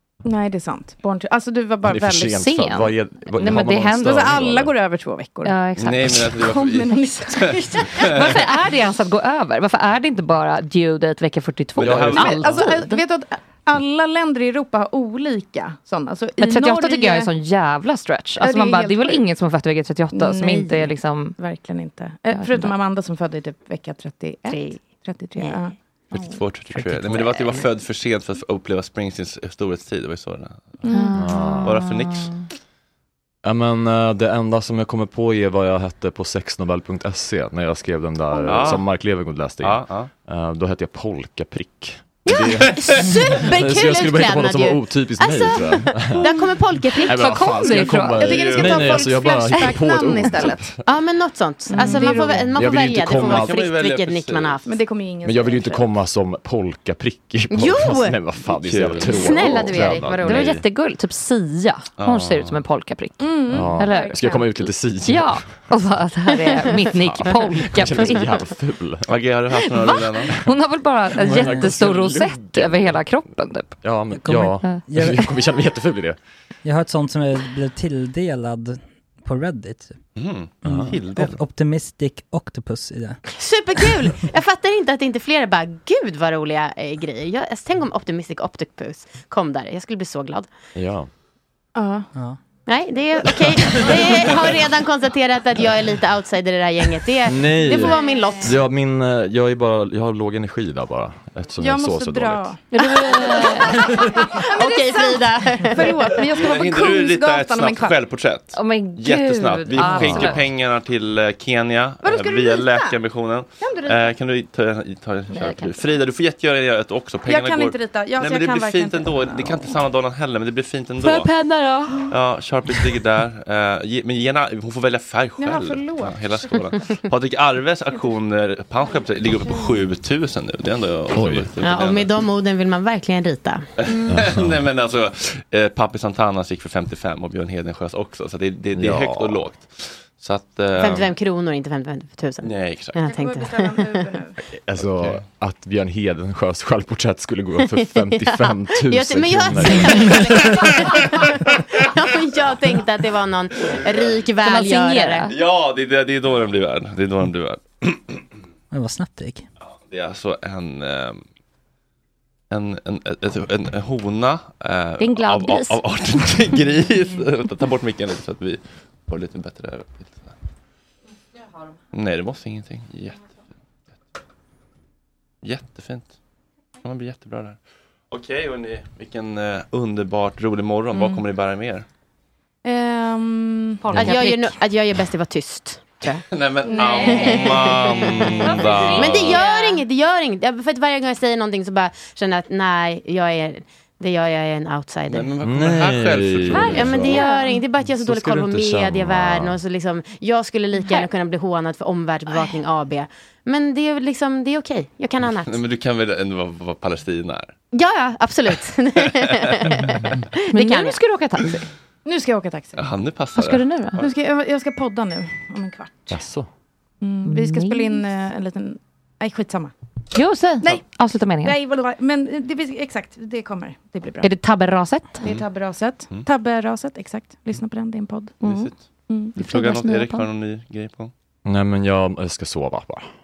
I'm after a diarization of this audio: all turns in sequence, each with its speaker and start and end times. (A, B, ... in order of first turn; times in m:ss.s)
0:00.2-0:02.8 A
0:01.8-0:04.7 B
0:02.3-0:04.3 C
0:03.9-0:05.6 A
0:05.4-0:06.3 C
0:05.8-0:08.4 D
0:06.2-0:08.2 A
0:08.0-0:13.0 C
0:11.8-0:12.7 D
0:11.8-0:12.6 B
0:12.1-0:17.3 A
0:16.4-0:21.4 C
0:18.4-0:19.3 A
0:20.1-0:26.4 A
0:22.3-0:22.7 C
0:24.5-0:24.8 E
0:26.1-0:30.8 D
0:26.7-0:27.4 F
0:30.8-0:31.6 A
0:30.9-0:32.5 C
0:31.1-0:31.8 B
0:31.6-0:32.4 D
0:33.4-0:50.8 B
0:38.4-0:38.9 D
0:39.6-0:40.1 D
0:42.3-0:47.7 E
0:47.1-0:48.7 C
0:47.6-0:50.7 A
0:48.2-0:49.1 D
0:50.8-0:54.7 E
0:51.7-0:52.5 A
0:52.0-0:53.6 B
0:53.0-0:54.6 D
0:54.6-0:55.9 A
0:55.2-1:00.6 B
0:57.5-0:58.1 E
0:58.6-0:59.2 D
0:59.0-1:00.6 E
0:59.7-1:08.3 C
1:02.0-1:02.6 D
1:03.2-1:04.4 A
1:03.5-1:05.5 B
1:06.8-1:09.0 B
1:09.1-1:10.4 D
1:09.5-1:13.8 C
1:11.1-1:13.0 B
1:11.2-1:11.8 F
1:13.8-1:16.2 B
1:14.2-1:15.3 F
1:14.6-1:15.3 C
1:16.6-1:20.0 F
1:20.2-1:21.4 D
1:20.6-1:21.0 B
1:20.6-1:23.2 F
1:23.2-1:30.5 E
1:30.7-1:31.1 B
1:31.8-1:32.1 A
1:32.7-1:38.6 E
1:37.2-1:42.5 B
1:37.8-1:38.5 A
1:41.6-1:48.0 A
1:42.7-1:44.1 C
1:43.1-1:46.0 E
1:46.4-2:01.3 D
1:48.5-1:50.5 C
1:49.7-1:50.4 B
1:52.0-1:53.0 A
1:53.6-1:54.1 A
1:55.3-1:55.8 C
1:57.2-1:59.8 A
2:01.0-2:02.1 C
2:02.1-2:12.1 D
2:05.4-2:06.6 A
2:08.8-2:09.8 A
2:11.1-2:11.5 B
2:11.6-2:14.1 E
2:13.8-2:21.1 D
2:14.1-2:14.6 B
2:18.7-2:19.4 B
2:20.8-2:24.0 E
2:22.4-2:22.9 D
2:23.0-2:24.3 A
2:24.6-2:30.8 B
2:24.7-2:25.2 D
2:27.9-2:35.3 E
2:34.4-2:35.3 C
2:35.2-2:38.2 D
2:38.7-2:39.4 F
2:39.8-2:41.2 D
2:42.5-2:50.3 D
2:45.0-2:45.8 C
2:51.9-2:53.2 D
2:55.4-2:56.1 D
2:56.8-2:57.6 D
2:58.1-3:01.8 D
3:00.9-3:01.2 A
3:02.6-3:04.0 A
3:03.8-3:04.6 C
3:03.9-3:06.2 E
3:06.3-3:09.4 D
3:06.6-3:07.6 A
3:06.8-3:07.2 C
3:07.0-3:08.4 E
3:08.4-3:09.8 C
3:08.9-3:15.3 E
3:15.1-3:17.2 D
3:15.4-3:17.2 B
3:16.5-3:17.6 C
3:16.7-3:25.6 E
3:17.8-3:19.6 B
3:25.2-3:27.5 D
3:27.7-3:31.0 E
3:30.5-3:31.6 C
3:32.0-3:32.8 A
3:32.8-3:34.1 D
3:33.4-3:34.0 C
3:34.0-3:36.2 A
3:36.1-3:36.5 B
3:37.0-3:39.7 A
3:37.2-3:38.1 C
3:40.1-3:41.6 C
3:40.6-3:44.4 A
3:44.2-3:45.2 C
3:45.1-3:49.4 A
3:48.4-3:48.7 D
3:49.4-3:51.1 D
3:49.4-3:50.3 C
3:51.4-3:53.1 B